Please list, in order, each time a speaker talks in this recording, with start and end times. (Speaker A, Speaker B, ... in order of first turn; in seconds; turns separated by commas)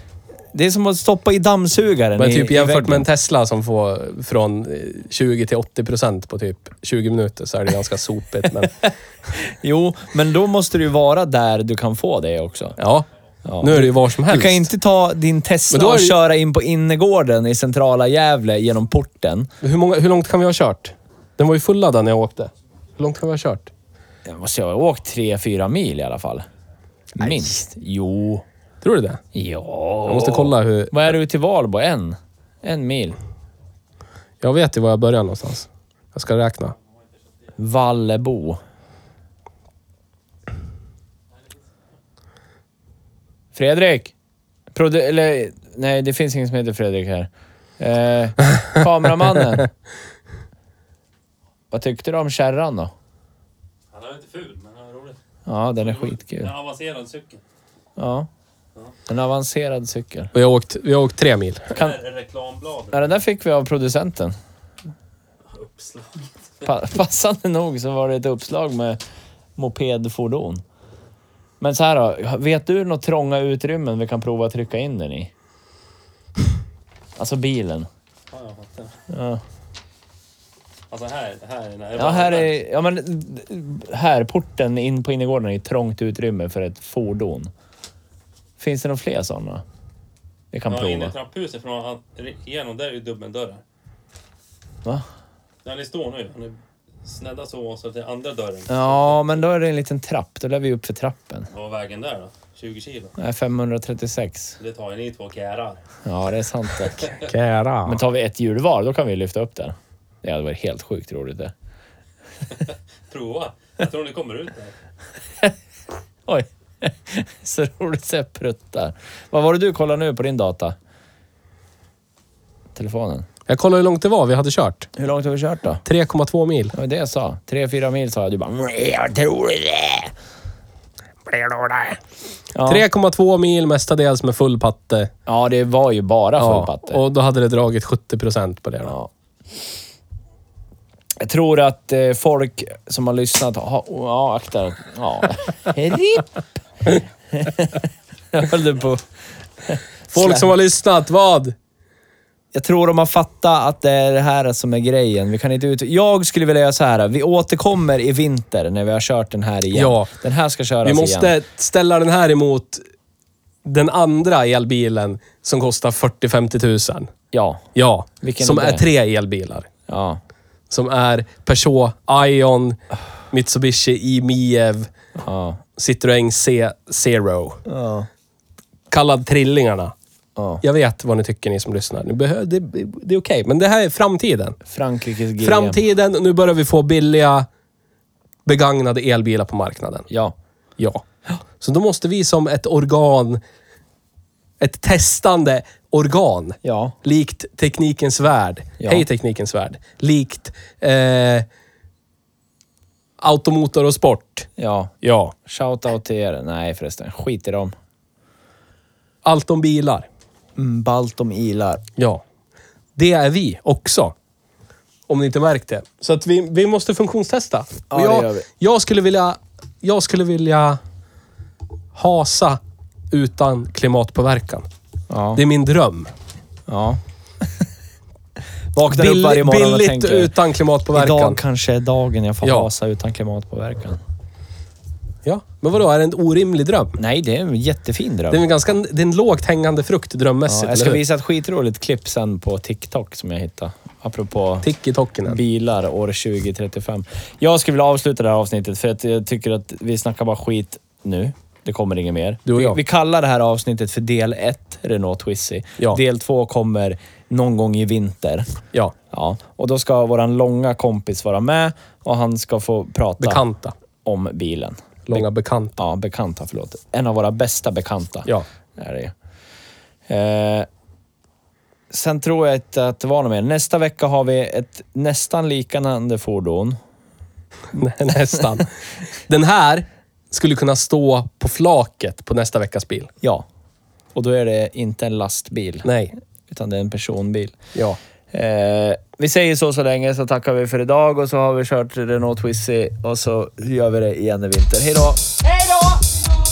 Speaker A: 0.5-3.1, Speaker B: 2.2-8.9, Speaker A: 9.3-12.8, Speaker B: 12.8-13.1, Speaker A: 13.4-19.5, Speaker B: 13.6-14.7, Speaker B: 15.7-16.1, Speaker B: 19.6-23.7, Speaker A: 24.2-26.4, Speaker A: 27.1-28.4, Speaker B: 28.8-29.2, Speaker A: 29.3-33.2, Speaker B: 30.1-31.1, Speaker B: 34.4-36.7, Speaker A: 37.6-38.6, Speaker A: 43.5-44.1, Speaker A: 44.7-49.7, Speaker A: 51.7-52.9, Speaker C: 53.9-55.2, Speaker A: 55.5-56.5, Speaker C: 55.8-57.4, Speaker A: 58.0-58.3, Speaker A: 59.1-60.3, Speaker B: 60.3-61.7, Speaker C: 61.7-63.1, Speaker A: 61.7-62.0, Speaker A: 62.9-64.3, Speaker C: 65.5-66.3, Speaker A: 66.6-69.0, Speaker A: 69.5-70.6, Speaker A: 71.6-75.3, Speaker A: 77.2-77.9, Speaker C: 78.3-79.0, Speaker A: 79.1-79.4, Speaker C: 80.9-82.5, Speaker A: 81.9-87.5, Speaker A: 88.6-89.6, Speaker A: 90.5-91.1, Speaker C: 90.7-93.6, Speaker C: 95.6-99.3, Speaker A: 98.7-101.5, Speaker C: 101.5-103.1, Speaker A: 103.2-104.5, Speaker C: 104.6-105.8, Speaker A: 106.0-107.1, Speaker B: 107.2-108.0, Speaker A: 107.8-111.5, Speaker C: 112.5-114.7, Speaker A: 116.3-120.8, Speaker A: 122.7-123.2, Speaker B: 123.5-124.9, Speaker A: 125.0-125.8, Speaker B: 125.8-126.7, Speaker A: 126.7-130.1, Speaker B: 131.3-132.0, Speaker A: 132.5-132.8, Speaker B: 132.6-135.1, Speaker A: 135.2-137.0, Speaker B: 136.4-138.9, Speaker A: 141.2-146.3, Speaker A: 146.8-149.0, Speaker A: 149.6-150.5, Speaker B: 150.1-151.6, Speaker A: 152.5-161.3, Speaker B: 159.7-160.1, Speaker B: 160.8-162.8, Speaker B: 163.6-167.1, Speaker A: 167.3-167.6, Speaker B: 167.7-169.7, Speaker A: 168.2-168.8, Speaker A: 169.9-170.2, Speaker B: 170.7-172.8, Speaker B: 173.3-174.9, Speaker A: 175.2-175.6, Speaker B: 175.8-177.6, Speaker A: 177.7-178.1, Speaker B: 178.9-179.9, Speaker A: 180.3-180.6, Speaker B: 180.6-184.6, Speaker A: 184.7-185.8, Speaker B: 185.4-187.5, Speaker B: 188.4-190.1, Speaker A: 190.1-190.3, Speaker B: 190.8-191.0, Speaker B: 191.6-193.4, Speaker B: 194.6-201.5, Speaker A: 196.6-196.9, Speaker A: 198.8-199.1, Speaker B: 203.2-204.5, Speaker A: 204.6-207.7, Speaker B: 205.0-205.3, Speaker B: 209.2-210.1, Speaker A: 210.6-211.8, Speaker B: 212.0-212.2, Speaker B: 212.9-214.1, Speaker B: 215.1-220.8, Speaker A: 217.9-218.5, Speaker B: 221.9-222.6, Speaker B: 223.1-224.7, Speaker A: 225.1-225.4, Speaker B: 225.3-226.1, Speaker A: 226.7-227.6, Speaker A: 228.7-230.3, Speaker B: 228.8-231.4, Speaker A: 230.9-234.0, Speaker B: 232.4-232.7, Speaker B: 235.2-237.0, Speaker A: 237.0-238.4, Speaker B: 238.3-241.0, Speaker A: 240.4-244.7, Speaker B: 244.6-245.4, Speaker A: 245.2-258.5, Speaker B: 252.4-252.8, Speaker A: 259.1-263.4, Speaker B: 263.2-263.7, Speaker A: 264.0-269.1, Speaker B: 265.1-265.8, Speaker A: 270.1-270.7, Speaker A: 271.9-276.8, Speaker B: 277.7-278.7, Speaker B: 279.3-283.1, Speaker A: 284.1-285.9, Speaker B: 285.8-286.1, Speaker A: 286.5-287.6, Speaker A: 288.3-295.4